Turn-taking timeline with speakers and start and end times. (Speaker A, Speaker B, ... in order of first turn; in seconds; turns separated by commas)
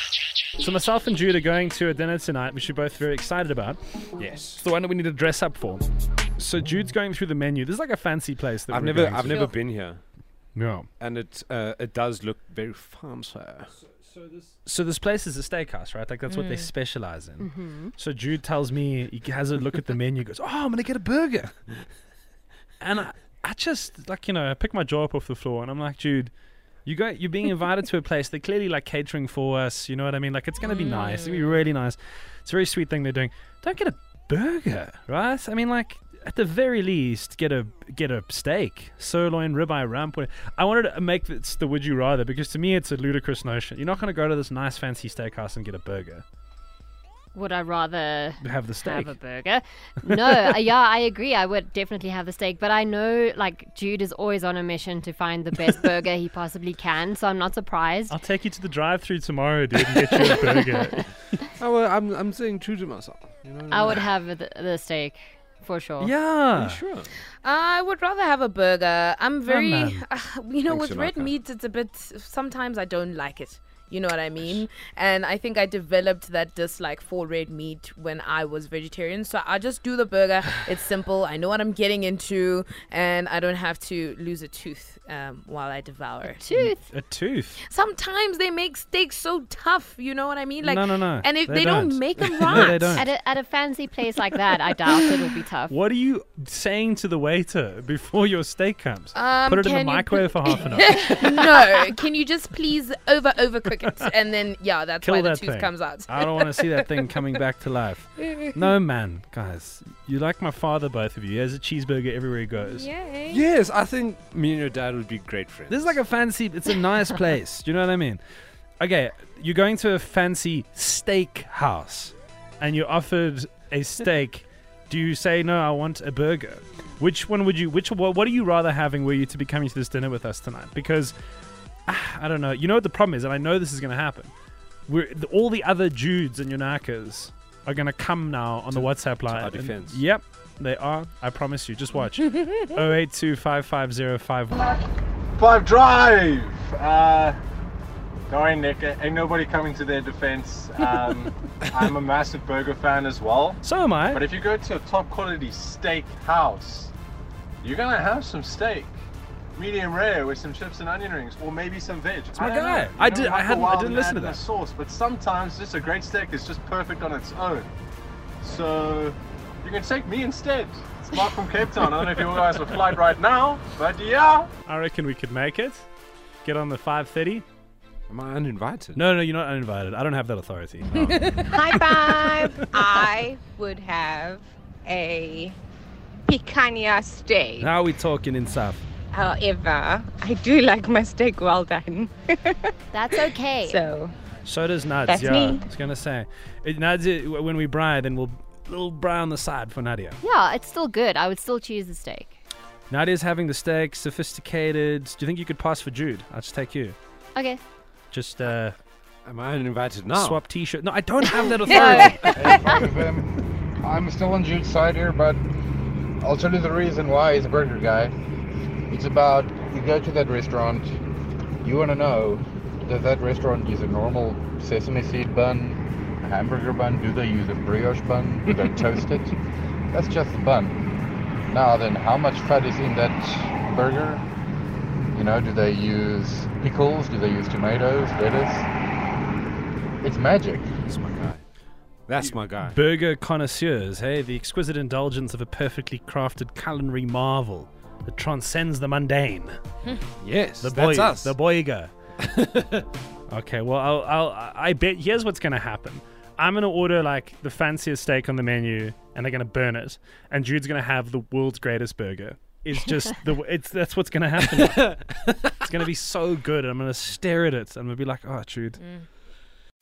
Speaker A: 0.6-3.8, Speaker B: 4.2-4.6, Speaker A: 4.6-5.9, Speaker A: 6.4-9.5, Speaker B: 8.7-10.0, Speaker A: 10.5-10.9, Speaker B: 11.0-13.7, Speaker A: 14.6-21.5, Speaker C: 16.3-16.7, Speaker D: 17.4-17.9, Speaker A: 22.8-26.3, Speaker A: 26.8-46.2, Speaker C: 30.6-31.4, Speaker D: 47.3-58.2, Speaker A: 48.4-49.1, Speaker A: 50.2-50.5, Speaker A: 58.1-61.1, Speaker B: 61.6-64.2, Speaker D: 63.7-66.1, Speaker A: 66.0-66.8, Speaker B: 66.5-67.2, Speaker C: 67.4-86.4, Speaker A: 69.5-70.0, Speaker B: 70.7-71.3, Speaker D: 86.4-86.8, Speaker A: 86.5-87.6, Speaker C: 87.7-93.0, Speaker A: 90.6-93.0, Speaker D: 92.9-95.7, Speaker A: 95.7-101.2, Speaker C: 99.1-106.8, Speaker A: 105.0-112.9, Speaker C: 112.6-113.4, Speaker B: 113.3-116.0, Speaker A: 115.7-118.2, Speaker A: 118.8-131.1, Speaker A: 131.9-134.3, Speaker A: 134.9-144.6, Speaker B: 138.7-140.0, Speaker E: 145.4-147.4, Speaker E: 148.3-156.9, Speaker A: 153.6-154.2, Speaker E: 157.6-158.9, Speaker E: 159.6-167.7, Speaker A: 162.3-164.4, Speaker E: 168.4-174.5, Speaker A: 174.7-175.9, Speaker A: 176.4-177.4, Speaker B: 178.1-179.0, Speaker A: 178.9-181.2, Speaker C: 180.9-181.7, Speaker F: 181.5-185.6, Speaker A: 182.4-182.8, Speaker F: 186.3-187.7, Speaker A: 187.6-188.8, Speaker F: 189.1-194.1, Speaker D: 192.9-193.8, Speaker A: 194.4-200.2, Speaker F: 195.1-195.6, Speaker D: 200.2-202.3, Speaker A: 202.9-206.9, Speaker D: 207.3-207.6, Speaker A: 208.1-208.8, Speaker B: 209.2-210.4, Speaker A: 210.1-212.6, Speaker D: 211.8-212.1, Speaker C: 212.0-212.5, Speaker G: 212.3-213.3, Speaker G: 213.8-215.4, Speaker G: 216.2-218.1, Speaker G: 218.9-220.9, Speaker G: 221.6-229.3, Speaker G: 229.9-230.8, Speaker G: 231.5-234.2, Speaker G: 235.1-238.7, Speaker G: 240.0-240.7, Speaker B: 240.9-241.4, Speaker B: 242.1-242.8, Speaker A: 242.6-249.6, Speaker B: 250.2-251.3, Speaker A: 250.6-251.9, Speaker B: 252.2-252.8, Speaker A: 253.3-268.8, Speaker C: 268.8-269.1